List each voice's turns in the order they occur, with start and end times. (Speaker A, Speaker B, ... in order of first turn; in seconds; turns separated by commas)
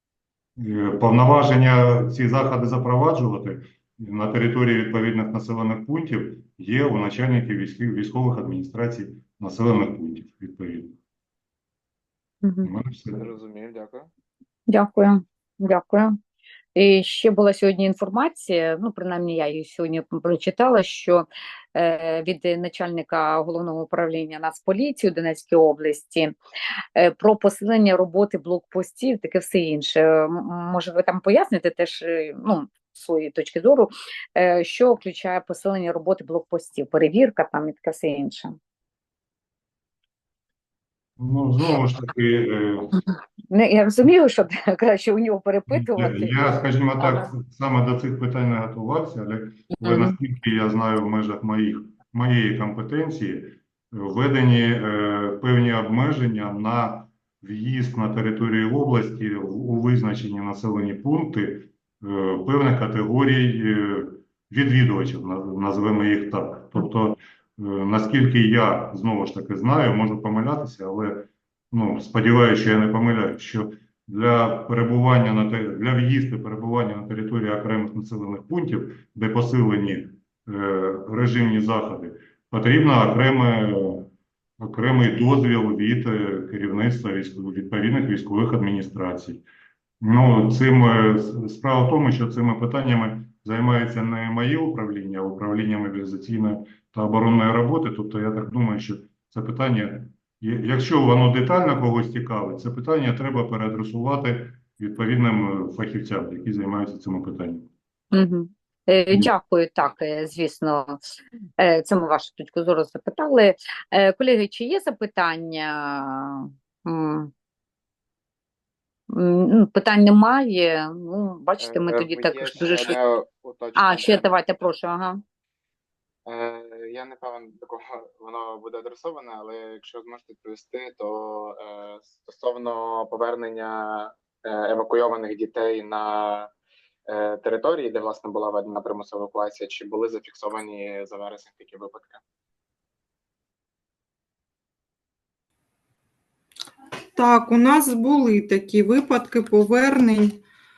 Speaker A: 0.6-11.0, Speaker B: 12.4-12.7, Speaker A: 12.6-13.2, Speaker C: 13.1-14.1, Speaker B: 14.7-16.2, Speaker B: 16.8-26.3, Speaker B: 26.9-38.5, Speaker A: 41.2-42.9, Speaker B: 43.5-46.5, Speaker A: 45.7-89.4, Speaker B: 47.0-47.3, Speaker B: 49.8-50.1, Speaker A: 90.0-107.7, Speaker B: 108.1-111.0, Speaker B: 111.6-117.3, Speaker B: 119.1-123.0, Speaker C: 121.6-124.3, Speaker B: 123.8-125.2, Speaker C: 126.2-136.5, Speaker C: 137.1-142.2, Speaker D: 147.1-150.4